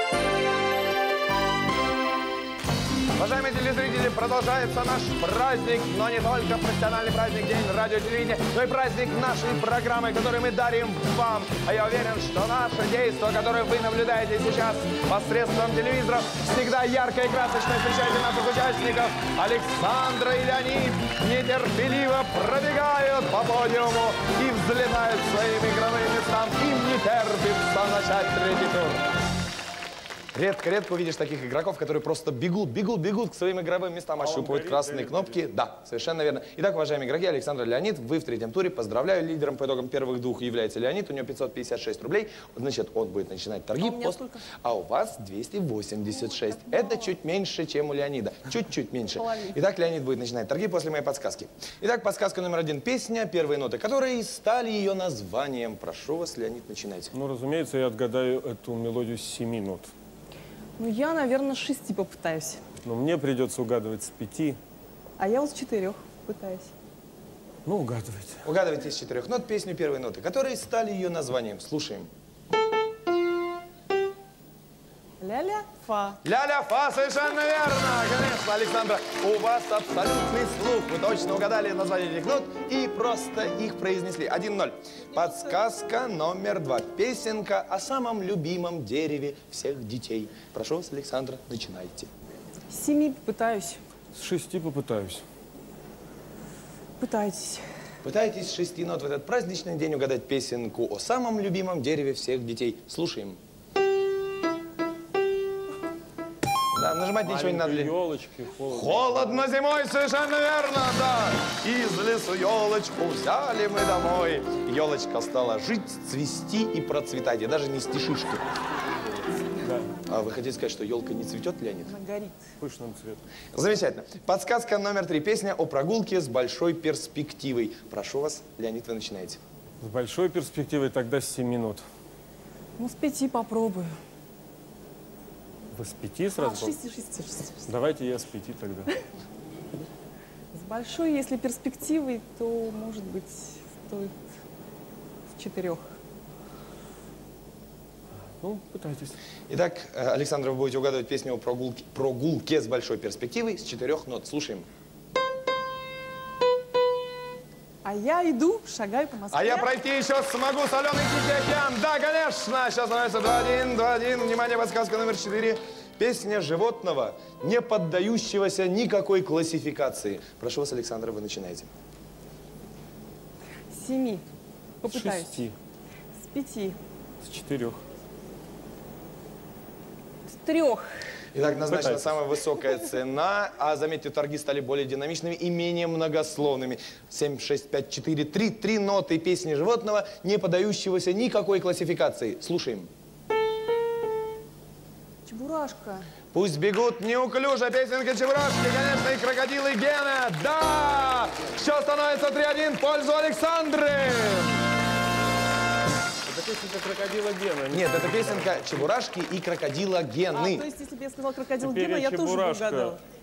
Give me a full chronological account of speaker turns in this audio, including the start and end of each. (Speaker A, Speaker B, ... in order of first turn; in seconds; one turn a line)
Speaker A: 3.1-29.1
Speaker A: 30.3-57.1
Speaker B: 34.2-35.4
Speaker C: 43.8-44.5
Speaker C: 46.4-46.8
Speaker C: 49.1-49.6
Speaker B: 57.1-59.9
Speaker C: 60.8-62.6
Speaker B: 62.8-64.6
Speaker C: 65.2-66.7
Speaker B: 67.7-68.4
Speaker A: 68.4-72.1
Speaker C: 75.2-76.2
Speaker A: 76.2-92.1
Speaker C: 92.7-93.8
Speaker B: 94.1-95.2
Speaker C: 97.0-97.7
Speaker A: 98.0-103.4
Speaker A: 106.7-107.9
Speaker B: 107.2-109.4
Speaker A: 108.7-118.5
Speaker B: 118.8-119.9
Speaker A: 120.1-121.9
Speaker C: 121.8-122.5
Speaker B: 122.6-123.2
Speaker A: 123.5-129.4
Speaker B: 129.8-131.8
Speaker C: 132.8-134.0
Speaker B: 135.7-136.8
Speaker C: 136.4-137.7
Speaker B: 137.7-138.9
Speaker C: 140.5-144.1
Speaker C: 145.3-145.8
Speaker B: 148.4-149.2
Speaker A: 149.5-154.7
Speaker C: 157.8-159.7
Speaker A: 159.3-171.7
Speaker C: 173.7-174.2
Speaker C: 174.8-175.5
Speaker B: 174.9-175.6
Speaker C: 176.2-176.8
Speaker B: 177.2-177.8
Speaker C: 180.3-180.9
Speaker A: 181.3-192.9
Speaker B: 181.7-182.1
Speaker C: 195.3-196.1
Speaker A: 196.3-204.6
Speaker B: 206.3-208.7
Speaker A: 207.7-210.7
Speaker C: 210.3-213.0
Speaker B: 211.6-213.0